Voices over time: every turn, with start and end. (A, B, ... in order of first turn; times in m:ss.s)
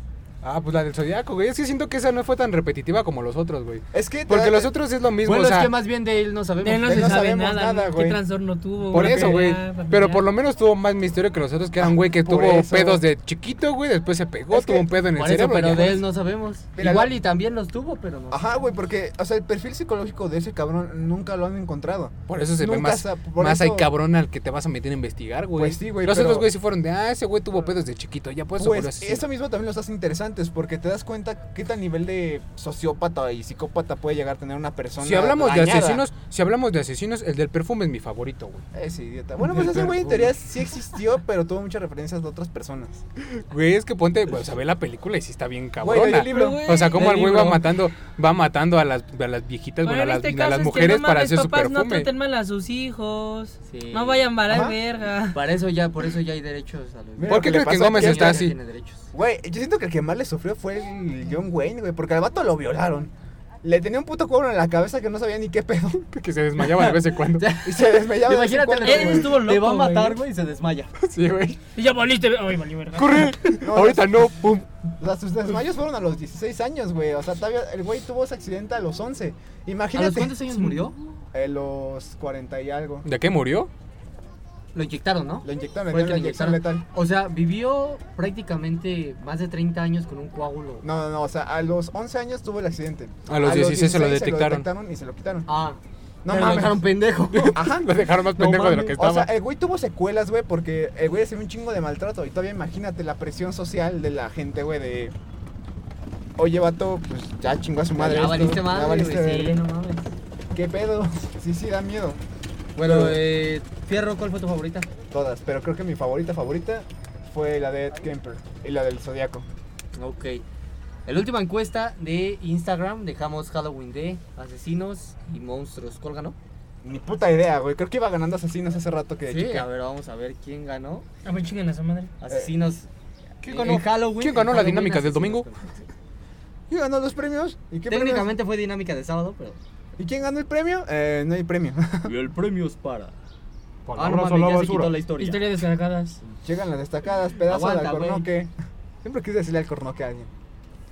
0:00.4-0:05.7 A
0:03.9-0:04.7 B
0:05.2-0:07.2 C
0:06.6-0:10.2 D
0:06.8-0:08.2 B
0:08.9-0:16.0 A
0:08.9-0:09.4 B
0:11.8-0:13.0 B
0:14.5-0:14.9 B
0:15.0-0:18.5 C
0:16.8-0:17.2 B
0:18.3-0:23.9 B
0:22.3-0:29.2 A
0:25.5-0:26.5 B
0:28.6-0:36.0 B
0:35.0-0:38.6 A
0:38.7-0:43.0 B
0:39.4-0:40.2 A
0:43.5-0:52.1 A
0:45.8-0:46.6 B
0:46.1-0:47.6 C
0:49.8-0:55.4 D
0:53.7-0:54.3 C
0:54.5-0:54.8 B
0:55.3-0:59.0 C
0:57.2-0:58.5 B
0:57.3-0:58.5 A
0:59.1-1:03.1 B
1:03.6-1:06.1 B
1:06.1-1:07.5 A
1:06.6-1:10.9 C
1:07.6-1:09.4 B
1:08.8-1:10.2 D
1:11.0-1:11.6 A
1:11.7-1:13.3 D
1:13.0-1:14.7 A
1:13.6-1:14.4 B
1:15.0-1:20.4 B
1:19.9-1:20.9 C
1:21.3-1:23.0 B
1:23.0-1:23.7 A
1:24.7-1:30.8 C
1:25.4-1:26.8 B
1:30.8-1:35.5 B
1:33.3-1:34.7 A
1:35.5-1:37.6 C
1:36.2-1:36.8 B
1:37.3-1:39.3 A
1:37.5-1:45.1 B
1:38.4-1:38.9 C
1:46.4-1:49.6 B
1:48.0-1:50.1 C
1:50.5-1:52.2 B
1:52.8-1:54.9 C
1:52.8-1:53.2 B
1:55.1-1:59.4 B
2:00.0-2:00.4 C
2:01.0-2:06.4 C
2:06.8-2:09.6 B
2:09.2-2:11.0 C
2:11.2-2:12.1 D
2:12.2-2:12.9 C
2:13.4-2:15.5 A
2:13.4-2:15.8 C
2:16.7-2:18.3 B
2:17.9-2:19.6 C
2:20.0-2:22.1 B
2:22.0-2:23.1 C
2:23.8-2:25.0 A
2:24.0-2:25.5 C
2:25.2-2:26.2 D
2:26.4-2:28.5 B
2:27.5-2:28.2 C
2:29.0-2:30.3 B